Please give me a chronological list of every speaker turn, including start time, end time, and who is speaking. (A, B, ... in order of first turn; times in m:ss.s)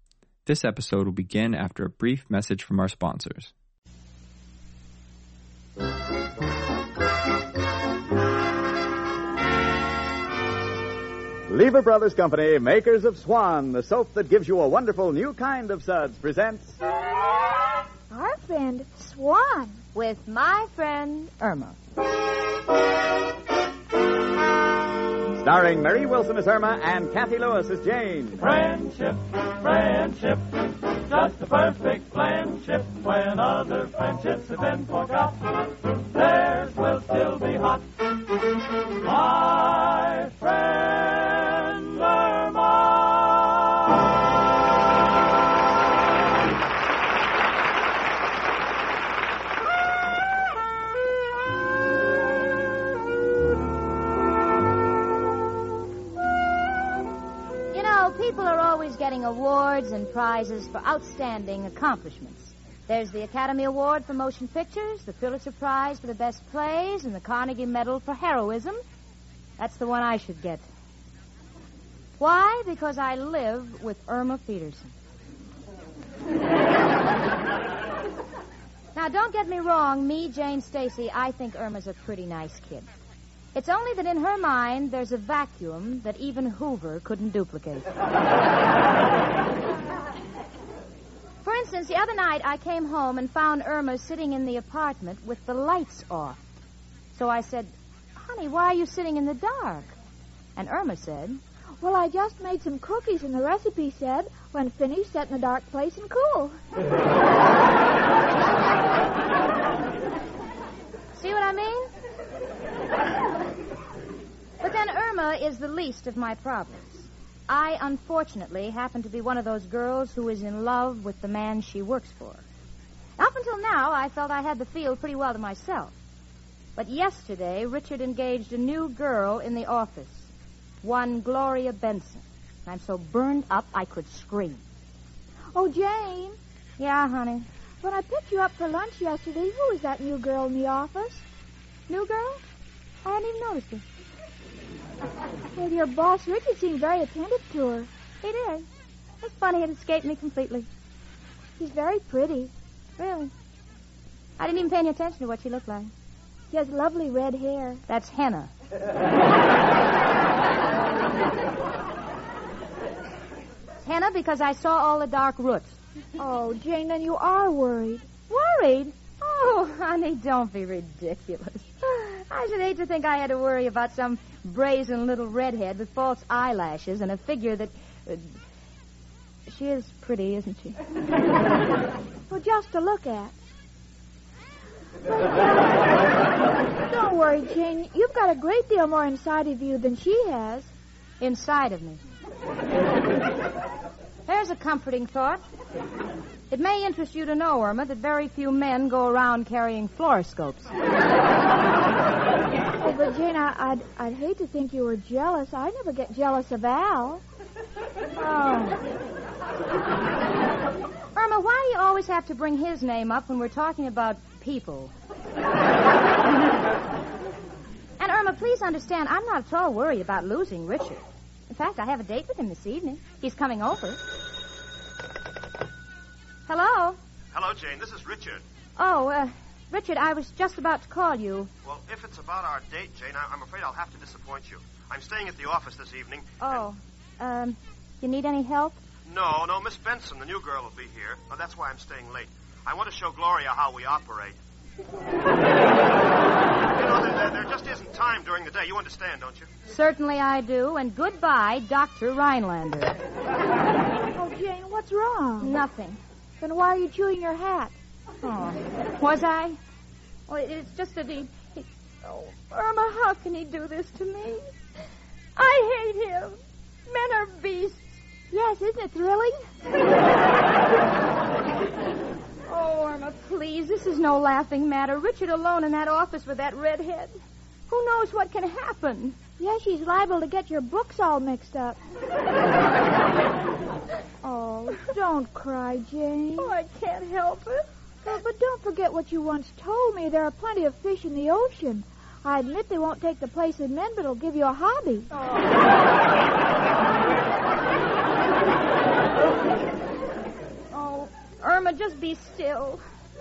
0:00.4-0:03.5 A
0:11.5-0:16.8 B
0:18.1-0:19.8 C
0:19.9-0:21.8 D
0:25.4-0:28.6 B
0:28.6-0:30.4 E
0:31.1-0:35.3 E
0:36.2-0:37.8 E
0:39.2-0:40.4 E
0:57.7-1:08.8 D
1:09.6-1:10.7 D
1:12.2-1:14.9 D
1:18.9-1:22.9 D
1:23.5-1:27.9 D
1:31.4-1:36.4 D
1:37.1-1:39.9 D
1:40.6-1:41.4 D
1:41.8-1:46.6 C
1:51.1-1:51.9 D
1:54.6-2:02.4 D
2:03.2-2:05.9 D
2:06.8-2:10.3 D
2:10.8-2:14.6 D
2:15.5-2:16.4 C
2:16.8-2:17.4 D
2:17.8-2:21.2 C
2:21.9-2:22.4 D
2:23.0-2:23.8 D
2:25.5-2:27.9 C
2:28.2-2:28.6 D
2:29.2-2:30.7 D
2:31.6-2:32.5 C
2:33.0-2:33.3 D
2:34.4-2:35.9 D
2:36.5-2:37.8 C
2:37.9-2:38.5 D
2:43.8-2:45.8 D
2:46.2-2:48.1 C
2:48.3-2:58.3 D
2:59.5-3:00.8 D
3:02.3-3:03.3 C
3:05.1-3:05.5 C
3:06.9-3:10.7 C
3:11.2-3:12.0 D
3:14.3-3:15.4 D
3:16.5-3:20.7 D
3:22.8-3:27.2 C
3:28.2-3:28.8 D
3:31.1-3:34.9 D
3:38.0-3:44.0 D
3:46.5-3:47.0 D
3:47.3-3:48.4 F
3:48.8-3:51.5 D
3:51.6-3:56.6 F
3:56.4-3:58.8 D
3:59.1-4:04.4 F
4:06.7-4:09.5 F
4:09.7-4:13.0 D
4:14.1-4:15.6 C
4:15.4-4:16.0 D
4:16.4-4:17.7 C
4:18.2-4:19.6 D
4:20.3-4:24.5 D
4:25.4-4:27.9 D
4:28.3-4:29.4 C
4:32.5-4:37.2 D
4:37.7-4:39.2 D
4:39.4-4:41.8 C
4:44.2-4:44.8 D
4:44.9-4:46.5 C
4:46.4-4:47.6 D
4:48.0-4:55.1 C
4:55.1-4:55.5 D
5:00.7-5:02.8 D